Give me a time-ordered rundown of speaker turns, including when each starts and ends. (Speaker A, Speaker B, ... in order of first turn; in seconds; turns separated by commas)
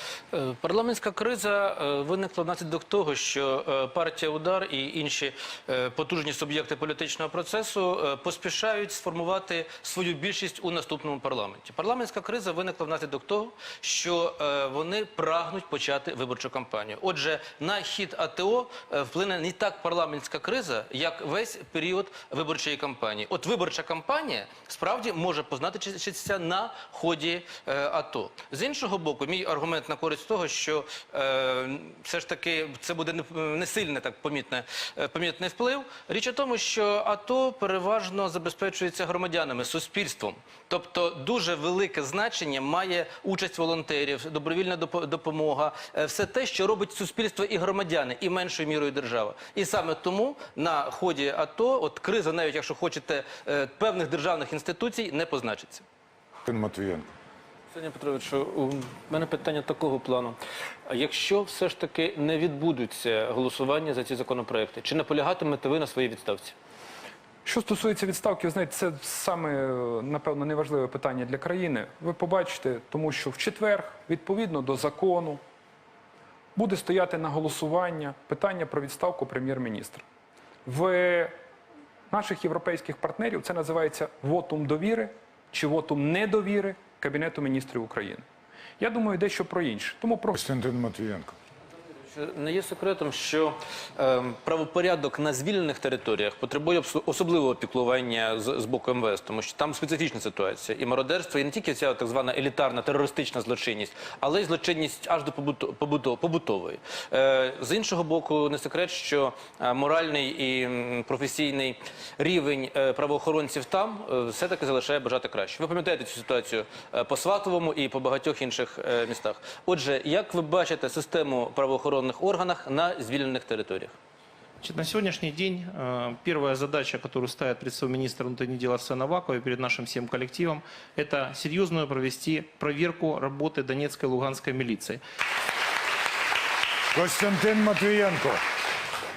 Speaker A: 0.3-55.8, Speaker B: 56.5-57.0, Speaker A: 57.7-66.5, Speaker C: 67.4-75.4, Speaker C: 76.5-80.0, Speaker C: 80.7-81.3, Speaker C: 82.1-88.2, Speaker C: 88.8-90.4, Speaker B: 90.3-91.3, Speaker A: 92.1-124.0, Speaker D: 124.6-135.0, Speaker B: 136.9-138.4